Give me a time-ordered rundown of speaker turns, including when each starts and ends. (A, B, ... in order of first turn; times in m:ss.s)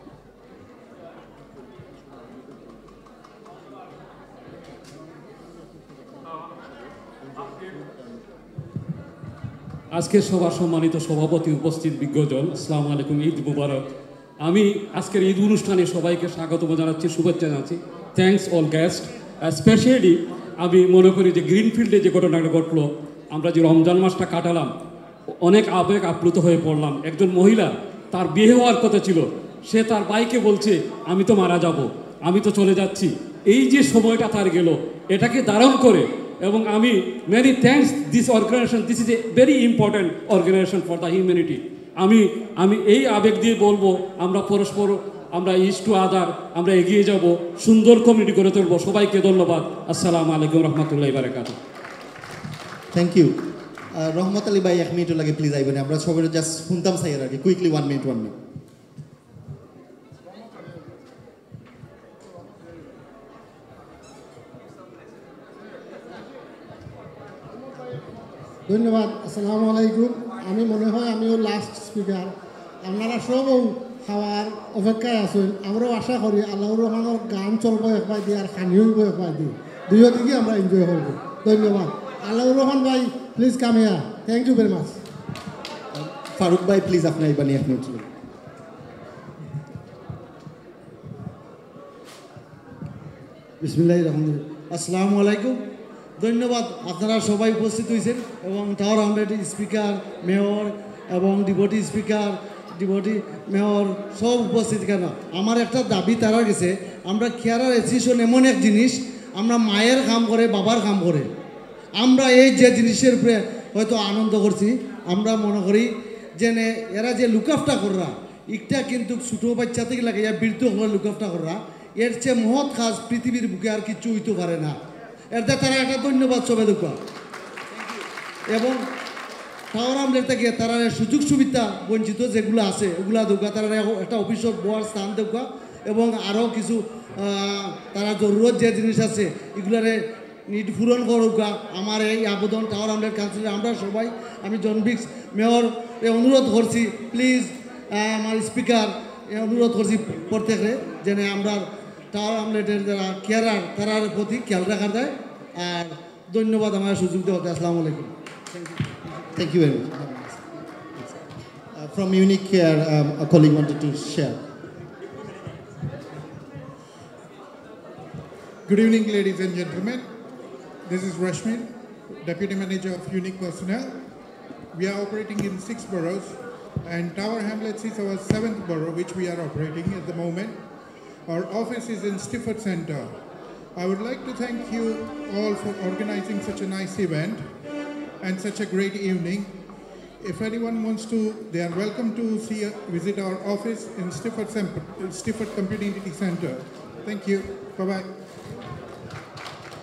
0:01.3-0:03.0 A
0:03.6-0:08.3 A
0:10.0-0:13.9 B
0:14.4-0:24.7 B
0:25.4-0:51.6 B
0:52.9-0:53.4 C
0:53.9-0:58.4 C
1:08.7-1:25.0 A
1:26.0-1:28.1 C
1:33.6-1:35.6 D
1:36.2-1:51.3 D
1:52.0-2:04.8 D
2:05.3-2:07.0 D
2:08.5-2:08.9 D
2:09.7-2:38.1 D
2:39.4-2:39.9 C
2:41.8-2:44.4 C
2:48.7-2:50.1 E
2:50.9-2:51.7 E
2:52.2-2:54.0 E
2:54.7-3:00.6 E
3:01.3-3:03.2 E
3:03.8-3:07.4 E
3:08.2-3:09.5 E
3:10.2-3:18.1 E